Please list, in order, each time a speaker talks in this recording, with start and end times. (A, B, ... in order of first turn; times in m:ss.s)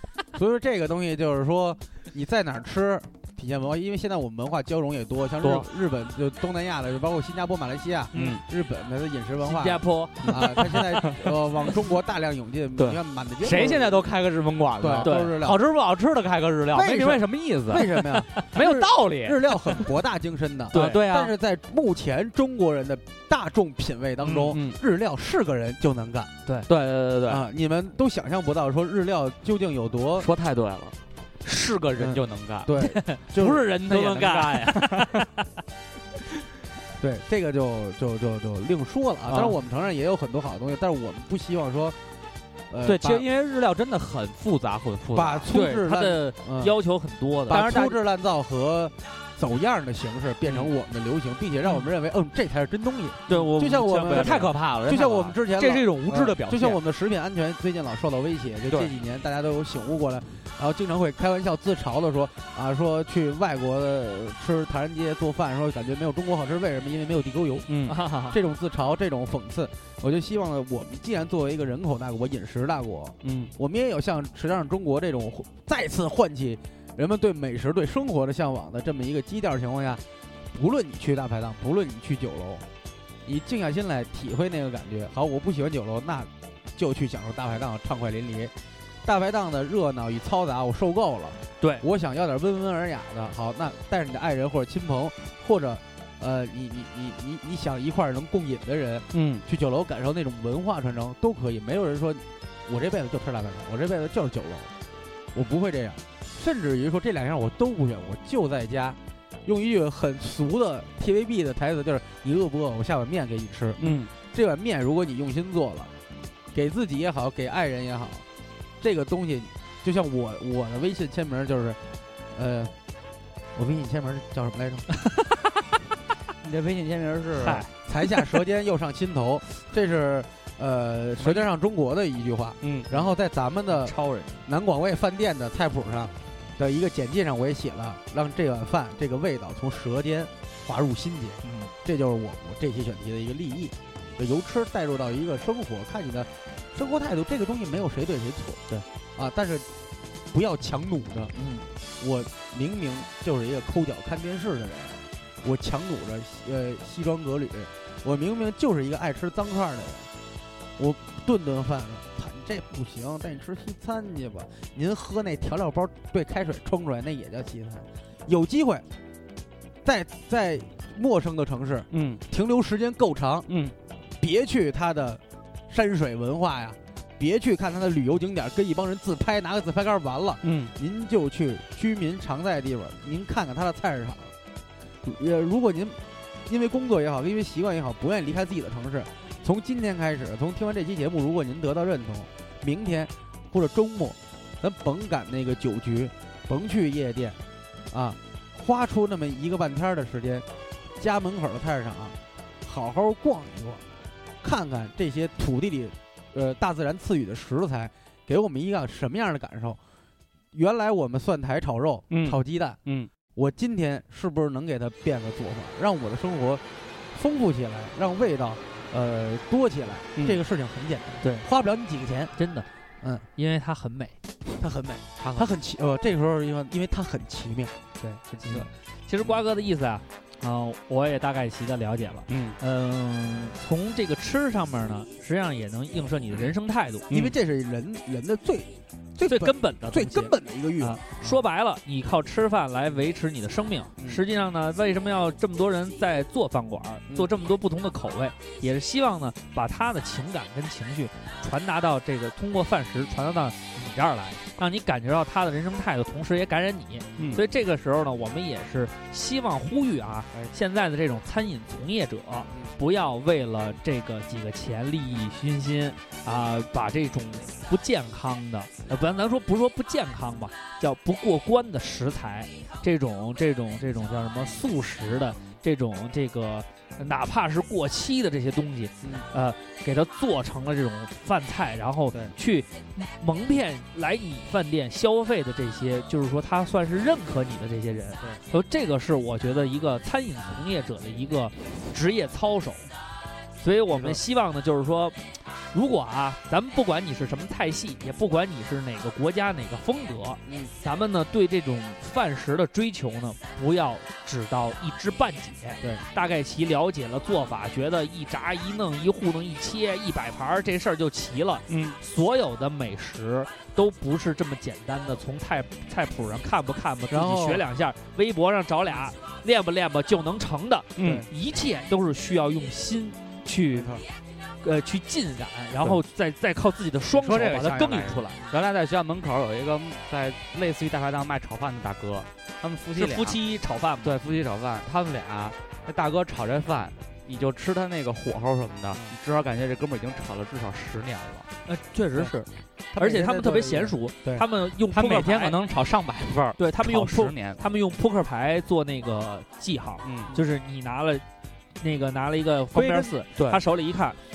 0:00.3-0:14.0 A
0:05.4-0:05.7 B
0:08.1-0:08.4 C
0:08.1-0:08.4 B
0:09.4-0:10.6 C
0:10.2-0:11.4 B
0:12.8-0:19.5 B
0:14.8-0:15.6 A
0:15.0-0:15.4 C
0:16.7-0:26.3 A
0:20.7-0:21.0 C
0:20.7-0:21.3 B
0:24.3-0:24.8 B
0:26.7-0:27.4 B
0:27.3-0:30.3 A
0:30.2-0:32.8 B
0:32.0-0:33.6 A
0:32.8-0:33.2 C
0:33.3-0:35.2 B
0:33.9-0:35.3 C
0:37.0-0:42.0 A
0:39.3-0:39.6 B
0:42.7-0:43.3 A
0:42.8-0:45.5 B
0:45.1-0:46.8 A
0:45.5-0:47.8 C
0:47.5-1:07.7 A
0:47.5-0:48.0 B
0:50.5-0:50.7 B
0:53.3-0:54.5 C
0:54.1-0:56.8 B
1:07.7-1:08.0 B
1:07.9-1:08.4 C
1:08.3-1:22.6 A
1:13.2-1:13.5 B
1:23.2-1:28.5 A
1:29.0-1:44.7 A
1:39.1-1:39.4 B
1:45.3-1:55.9 A
1:53.8-1:54.1 B
1:56.5-1:58.2 A
1:58.8-2:01.8 A
2:02.3-2:02.7 A
2:03.6-2:04.9 A
2:05.1-2:05.4 C
2:06.4-2:07.6 B
2:07.4-2:08.4 C
2:07.8-2:14.0 A
2:11.2-2:11.5 B
2:12.6-2:12.9 B
2:13.7-2:14.4 C
2:14.5-2:28.6 A
2:21.4-2:21.7 C
2:29.2-2:29.7 A
2:30.3-2:31.3 A
2:31.4-2:31.6 C
2:32.0-2:40.1 A
2:40.8-2:48.8 A
2:49.8-2:53.5 A
2:51.9-2:52.2 B
2:53.5-2:53.7 B
2:54.2-3:04.3 A
3:00.4-3:00.7 B
3:05.0-3:17.4 A
3:17.9-3:20.4 A
3:21.0-3:23.9 A
3:24.4-3:29.8 A
3:30.5-3:32.8 A
3:32.1-3:33.1 B
3:33.4-3:42.3 A
3:41.2-3:41.5 C
3:42.4-3:42.7 C
3:43.0-3:43.3 A
3:43.4-3:44.2 C
3:44.6-3:47.8 A
3:48.0-3:57.1 C
3:52.3-3:52.6 B
3:57.1-3:57.4 B
3:57.1-4:01.4 A
3:59.3-4:52.9 C
4:17.2-4:17.4 A
4:17.2-4:17.4 B
4:39.0-4:39.3 A
4:53.6-4:55.2 C
4:53.9-4:54.2 A
4:55.7-5:24.0 C
5:00.5-5:00.7 A
5:11.7-5:12.0 B
5:17.1-5:17.6 A
5:21.0-5:21.3 B
5:21.0-5:21.3 A
5:23.7-5:24.0 A
5:24.6-5:28.4 C
5:27.1-5:33.4 B
5:33.0-5:34.2 C
5:34.0-5:41.5 B
5:41.7-5:42.5 C
5:42.9-5:44.4 A
5:43.0-5:45.6 C
5:44.9-5:47.6 B
5:46.6-5:51.2 C
5:50.0-5:50.3 B
5:51.8-5:54.2 C
5:52.8-5:53.0 A
5:52.8-5:53.6 B